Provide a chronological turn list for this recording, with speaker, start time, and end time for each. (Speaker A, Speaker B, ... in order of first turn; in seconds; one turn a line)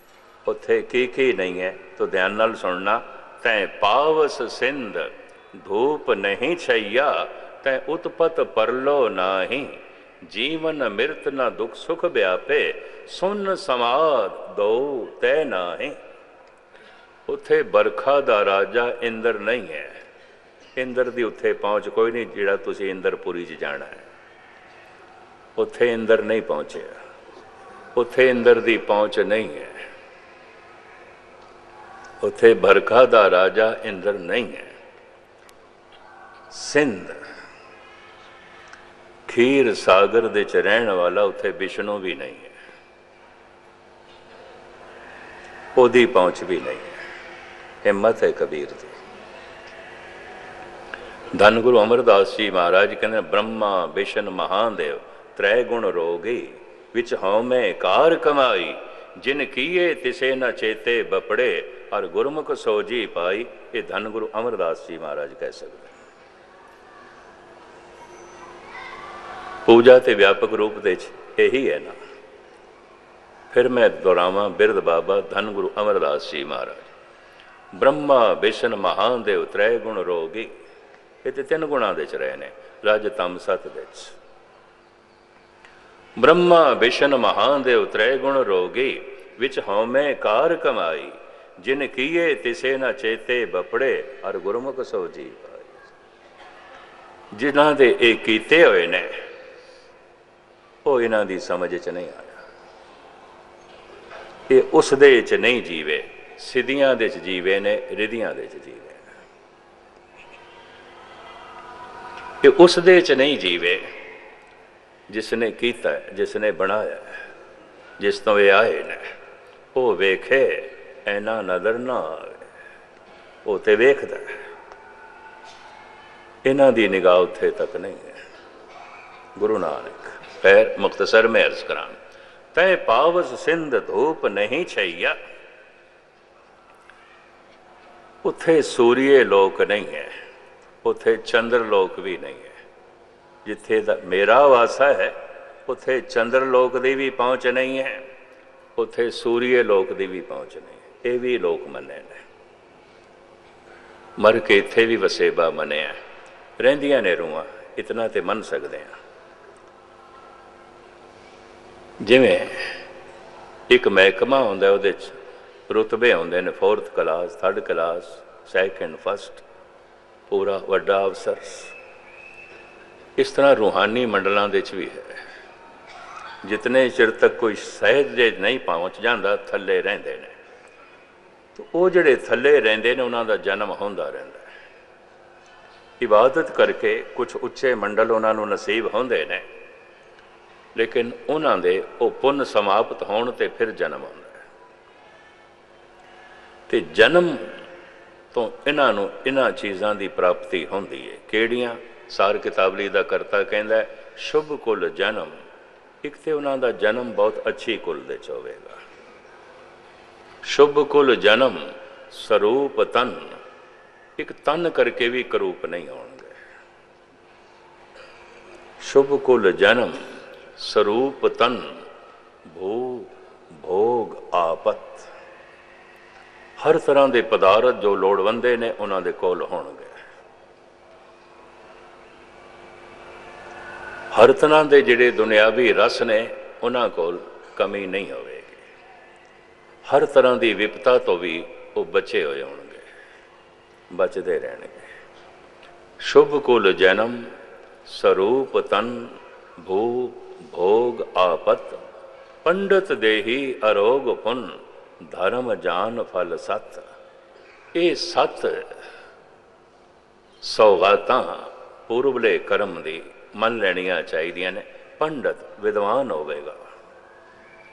Speaker A: 0.5-16.0
Speaker A: 17.3-20.0
Speaker A: 20.8-24.1
Speaker A: 25.6-27.0
Speaker A: 28.0-29.8
Speaker A: 32.2-34.7
Speaker A: 36.5-37.2
Speaker A: 39.3-42.5
Speaker A: 45.8-47.0
Speaker A: 47.8-48.9
Speaker A: 51.4-65.9
Speaker A: 69.7-72.0
Speaker A: 73.5-76.9
Speaker A: 77.8-80.5
Speaker A: 81.2-84.2
Speaker A: 86.2-95.8
Speaker A: 97.3-99.2
Speaker A: 100.8-102.4
Speaker A: 104.5-109.0
Speaker A: 112.4-113.9
Speaker A: 115.1-117.2
Speaker A: 118.0-119.0
Speaker A: 119.8-122.5
Speaker A: 123.5-124.4
Speaker A: 126.5-128.2
Speaker A: 129.4-132.0
Speaker A: 132.5-135.2
Speaker A: 138.2-140.1
Speaker A: 140.8-142.6
Speaker A: 143.4-148.1
Speaker A: 148.8-152.2
Speaker A: 154.2-156.0
Speaker A: 156.6-159.0
Speaker A: 162.0-162.8
Speaker A: 163.7-165.2
Speaker A: 165.7-169.4
Speaker A: 170.3-171.7
Speaker A: 173.2-175.2
Speaker A: 176.4-180.4
Speaker A: 181.6-184.5
Speaker A: 186.0-189.5
Speaker A: 190.8-194.4
Speaker A: 196.7-197.6
Speaker A: 198.3-205.3
Speaker A: 206.0-208.8
Speaker A: 210.4-213.4
Speaker A: 214.2-216.4
Speaker A: 218.8-220.0
Speaker A: 220.6-221.8
Speaker A: 222.5-225.1
Speaker A: 226.6-229.9
Speaker A: 234.1-238.6
Speaker A: 239.9-242.9
Speaker A: 243.9-244.9
Speaker A: 246.0-247.2
Speaker A: 247.9-251.8
Speaker A: 252.4-256.9
Speaker A: 257.7-258.7
Speaker A: 260.4-266.6